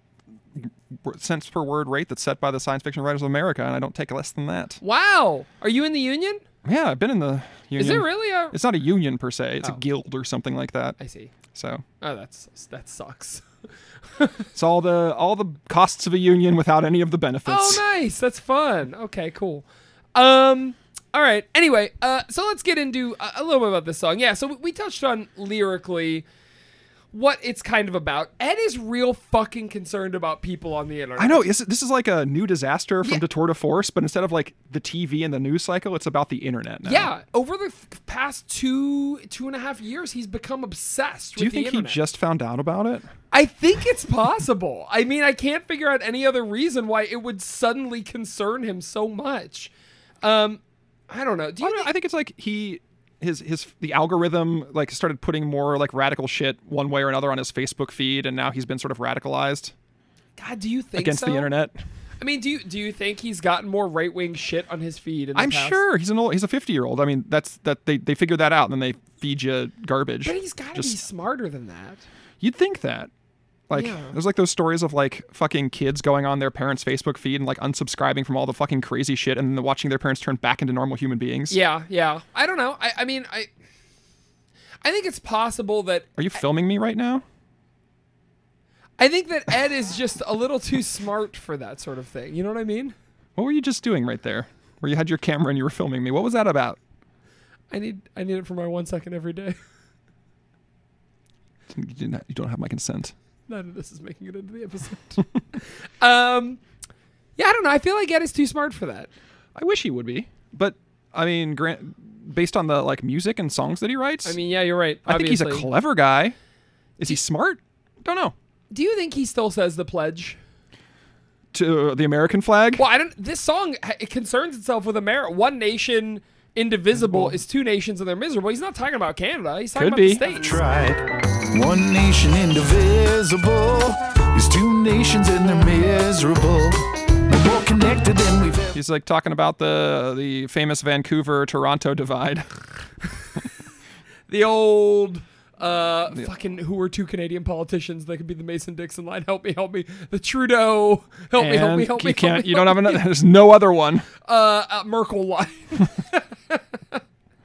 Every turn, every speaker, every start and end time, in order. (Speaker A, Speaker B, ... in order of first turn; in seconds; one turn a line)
Speaker A: 0.5-4.8
Speaker B: 4.8-6.4
Speaker A: 6.6-11.0
Speaker B: 7.8-8.6
Speaker B: 11.0-11.3
Speaker A: 11.5-11.8
Speaker B: 12.0-13.4
Speaker B: 14.2-14.5
Speaker A: 14.5-17.8
Speaker B: 17.4-26.2
Speaker B: 27.1-31.5
Speaker A: 31.2-37.1
Speaker B: 36.8-42.0
Speaker A: 41.4-43.1
Speaker B: 43.3-49.7
Speaker B: 50.2-51.9
Speaker A: 51.6-59.7
Speaker B: 60.4-61.5
Speaker A: 61.0-61.8
Speaker B: 62.2-65.8
Speaker A: 65.3-71.0
Speaker B: 70.2-72.0
Speaker A: 72.4-73.1
Speaker A: 73.7-81.6
Speaker B: 73.7-74.2
Speaker B: 81.5-83.5
Speaker B: 84.8-86.1
Speaker A: 86.2-87.2
Speaker B: 89.0-92.9
Speaker A: 93.4-96.8
Speaker B: 97.7-99.5
Speaker A: 101.7-103.1
Speaker B: 103.5-106.6
Speaker B: 107.4-109.1
Speaker A: 109.5-114.4
Speaker B: 114.2-115.7
Speaker A: 115.0-116.3
Speaker A: 117.0-118.3
Speaker B: 118.7-120.4
Speaker A: 121.5-122.8
Speaker B: 122.8-130.6
Speaker A: 126.9-127.4
Speaker A: 129.7-130.2
Speaker C: 130.3-138.7
Speaker A: 138.7-142.7
Speaker B: 144.3-153.1
Speaker A: 151.3-154.1
Speaker B: 154.2-157.0